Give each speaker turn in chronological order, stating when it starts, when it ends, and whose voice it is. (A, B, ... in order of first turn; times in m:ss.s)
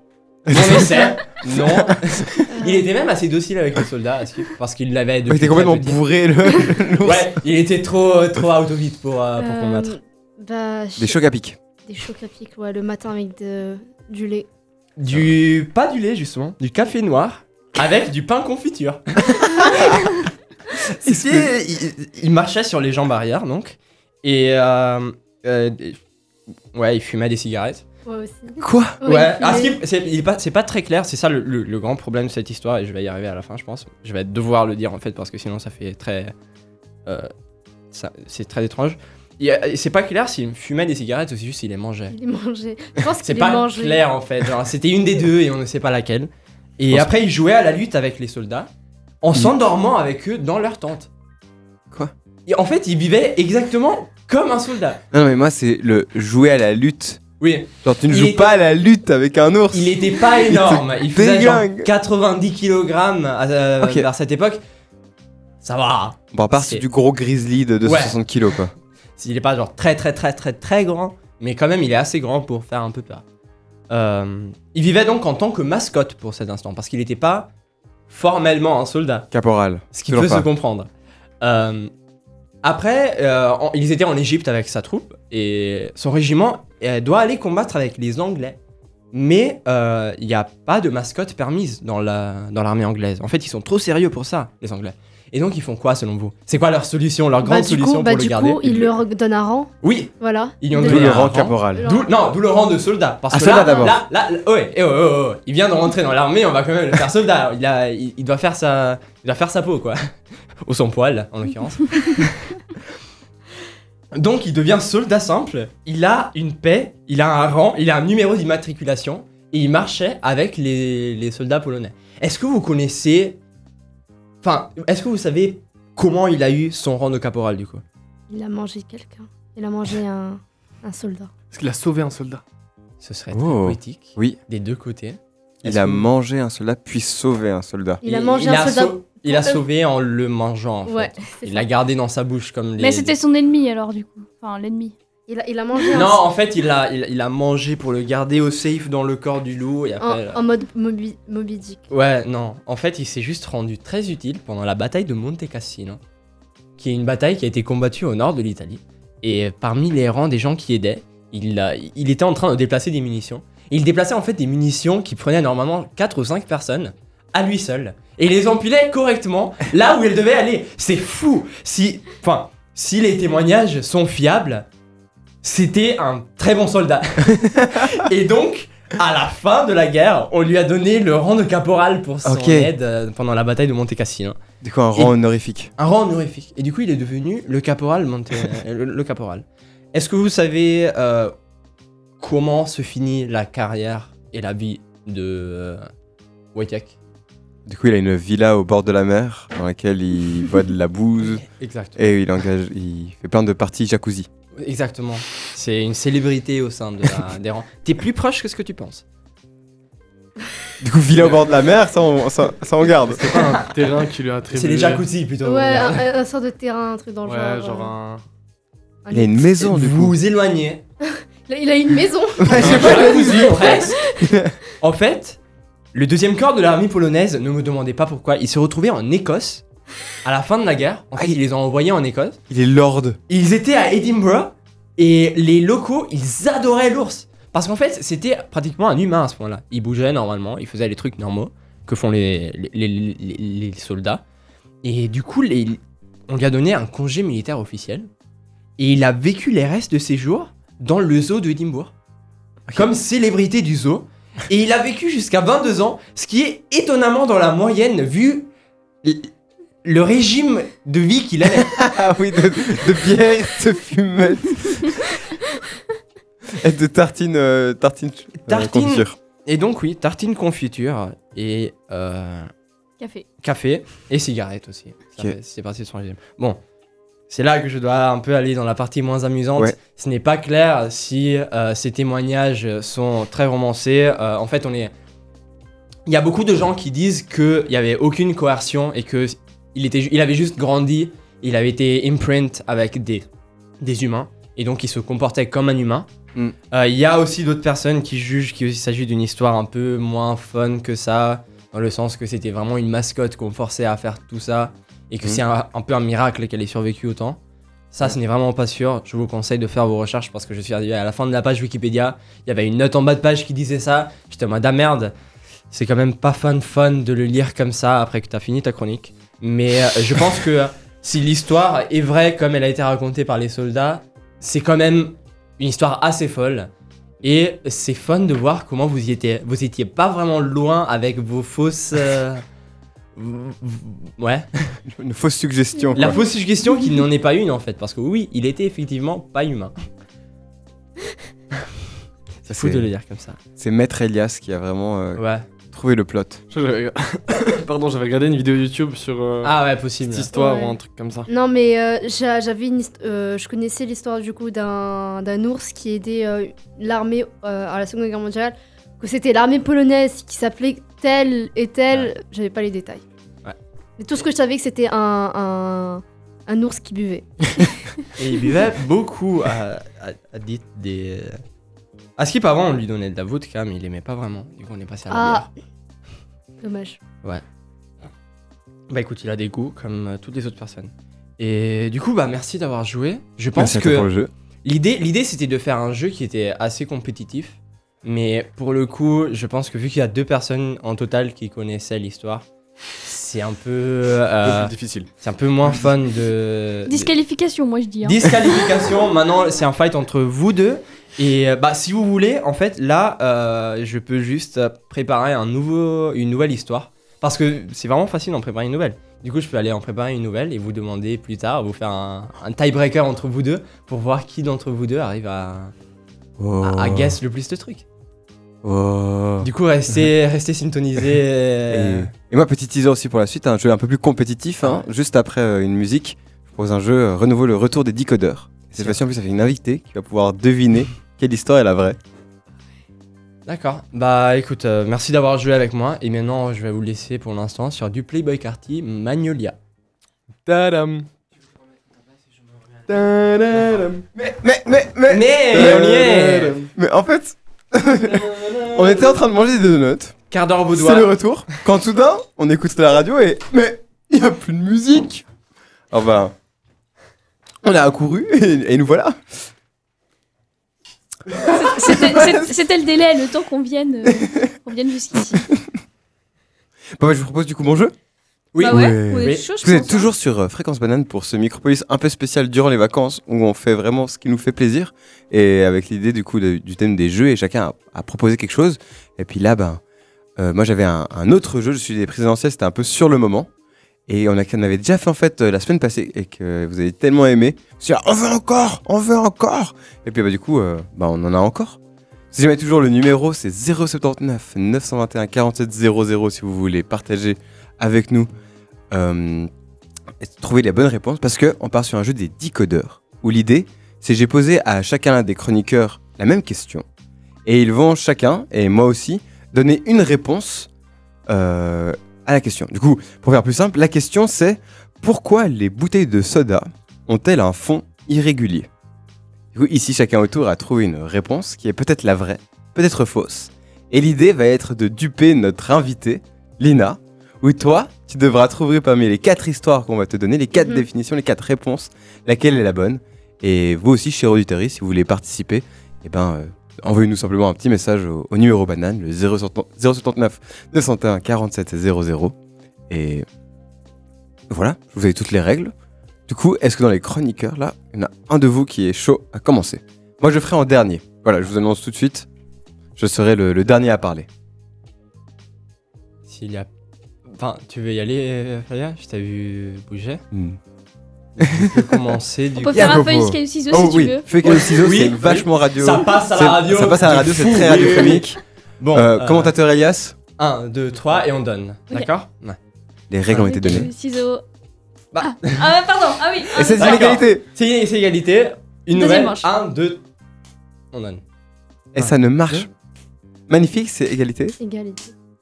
0:00.5-0:02.4 A
0:00.5-0:06.0 B
0:02.5-0:02.9 C
0:05.3-0:07.4 A
0:07.0-0:09.9 B
0:09.4-0:11.2 C
0:11.0-0:11.6 A
0:11.8-0:14.5 C
0:15.0-0:20.0 B
0:19.7-0:20.0 A
0:21.0-0:26.0 B
0:21.0-0:21.8 A
0:26.7-0:27.8 B
0:28.0-0:29.8 C
0:28.6-0:29.0 A
0:29.0-0:36.3 B
0:37.9-0:42.1 B
0:42.1-0:44.0 C
0:43.2-0:48.7 B
0:49.2-0:51.1 B
0:52.5-0:55.0 B
0:55.1-0:57.2 A
0:57.4-0:58.5 B
0:57.8-1:01.9 A
0:59.7-1:04.6 B
1:03.8-1:04.1 A
1:05.6-1:06.8 B
1:06.3-1:08.7 A
1:07.8-1:08.2 B
1:09.2-1:13.2 B
1:13.9-1:17.5 B
1:18.1-1:19.3 B
1:19.3-1:20.5 A
1:19.9-1:20.9 B
1:21.4-1:21.9 B
1:22.6-1:28.6 B
1:29.1-1:38.9 B
1:37.4-1:42.2 C
1:39.8-1:50.0 B
1:40.8-1:41.9 A
1:43.3-1:44.0 A
1:43.5-1:43.9 C
1:50.6-1:52.6 B
1:54.1-2:03.4 B
2:04.4-2:07.8 B
2:08.3-2:11.3 C
2:11.5-2:12.4 D
2:13.0-2:16.0 B
2:13.3-2:14.4 A
2:15.6-2:18.0 A
2:18.0-2:19.6 C
2:18.0-2:23.1 B
2:20.8-2:21.7 C
2:22.8-2:24.9 E
2:25.3-2:26.2 C
2:25.9-2:30.4 B
2:30.0-2:31.8 C
2:31.9-2:36.0 B
2:36.8-2:54.6 B
2:55.4-3:04.4 B
3:02.2-3:02.7 A
3:04.6-3:05.7 A
3:05.8-3:11.3 B
3:12.2-3:15.8 B
3:16.5-3:17.0 B
3:17.6-3:21.4 A
3:21.5-3:22.2 B
3:22.0-3:24.3 A
3:24.6-3:29.0 B
3:30.8-3:33.3 A
3:33.1-3:35.0 D
3:34.5-3:36.1 B
3:35.4-3:37.9 C
3:37.2-3:38.2 D
3:39.0-3:39.6 C
3:39.1-3:40.2 A
3:39.6-3:40.8 B
3:41.1-3:44.4 C
3:42.4-3:44.5 A
3:42.6-3:44.0 B
3:42.6-3:43.2 D
3:44.8-3:45.4 B
3:45.9-3:49.6 B
3:50.2-3:52.4 B
3:52.5-3:53.2 A
3:53.3-4:04.2 B
4:04.8-4:08.1 B
4:08.8-4:11.9 B
4:12.7-4:18.5 B
4:19.0-4:19.3 B
4:19.8-4:21.8 B
4:21.5-4:25.0 A
4:26.5-4:29.2 A
4:28.5-4:32.5 B
4:33.0-4:33.2 E
4:33.4-4:36.6 B
4:37.3-4:44.9 B
4:46.1-4:53.2 B
4:53.8-4:56.1 B
4:56.7-5:07.4 B
5:07.9-5:15.1 B
5:15.7-5:26.7 B
5:27.2-5:32.4 B
5:33.2-5:34.8 B
5:34.9-5:36.2 A
5:35.9-5:39.7 B
5:42.4-5:43.4 B
5:42.5-5:42.9 A
5:43.6-5:46.4 A
5:45.2-5:45.4 B
5:46.5-5:51.3 D
5:49.4-5:50.3 B
5:50.3-5:50.8 C
5:51.3-6:03.0 C
6:04.0-6:07.8 C
6:08.2-6:11.4 B
6:12.2-6:15.5 B
6:15.1-6:15.5 C
6:16.6-6:17.0 C
6:18.9-6:24.1 B
6:23.5-6:24.3 A
6:24.6-6:32.4 B
6:33.0-6:37.1 B
6:34.4-6:35.1 D
6:36.9-6:38.3 E
6:38.0-6:55.7 B
6:56.4-6:57.2 A
6:56.6-6:57.8 B
6:58.6-6:59.5 A
6:59.4-7:02.1 B
7:01.7-7:12.0 A
7:13.4-7:19.6 B
7:20.4-7:21.1 D
7:22.9-7:24.0 D
7:24.2-7:26.0 A
7:25.1-7:26.6 B
7:25.5-7:26.7 D
7:26.8-7:30.2 A
7:30.3-7:31.1 B
7:30.7-7:35.2 A
7:35.9-7:36.3 A
7:37.6-7:39.2 A
7:41.5-7:45.4 E
7:41.9-7:42.4 A
7:47.0-7:47.9 A
7:48.5-7:49.4 B
7:48.6-7:50.1 E
7:48.6-7:59.8 A
8:00.4-8:03.5 A
8:04.1-8:11.8 A
8:12.3-8:18.3 A
8:18.9-8:19.5 A
8:20.2-8:26.8 A
8:27.4-8:30.7 A
8:31.3-8:38.7 A
8:39.5-9:02.3 A
8:50.6-8:50.8 C
9:02.9-9:03.2 A
9:04.5-9:05.7 A
9:06.3-9:12.3 A
9:13.0-9:14.3 A
9:16.3-9:16.7 B
9:17.3-9:20.2 B
9:20.3-9:20.6 A
9:21.4-9:23.0 B
9:21.4-9:21.9 A
9:22.6-9:24.6 E
9:22.7-9:28.4 A
9:24.4-9:28.3 B
9:28.8-9:29.5 B
9:28.9-9:30.2 A
9:30.4-9:32.6 B
9:33.1-9:33.9 A
9:33.3-9:34.4 E
9:35.1-9:35.7 B
9:35.2-9:37.1 E
9:36.5-9:37.4 A
9:36.7-9:40.0 B
9:38.9-9:39.5 E
9:40.9-9:41.2 B
9:41.9-9:42.7 A
9:43.5-9:44.6 A
9:44.6-9:45.1 C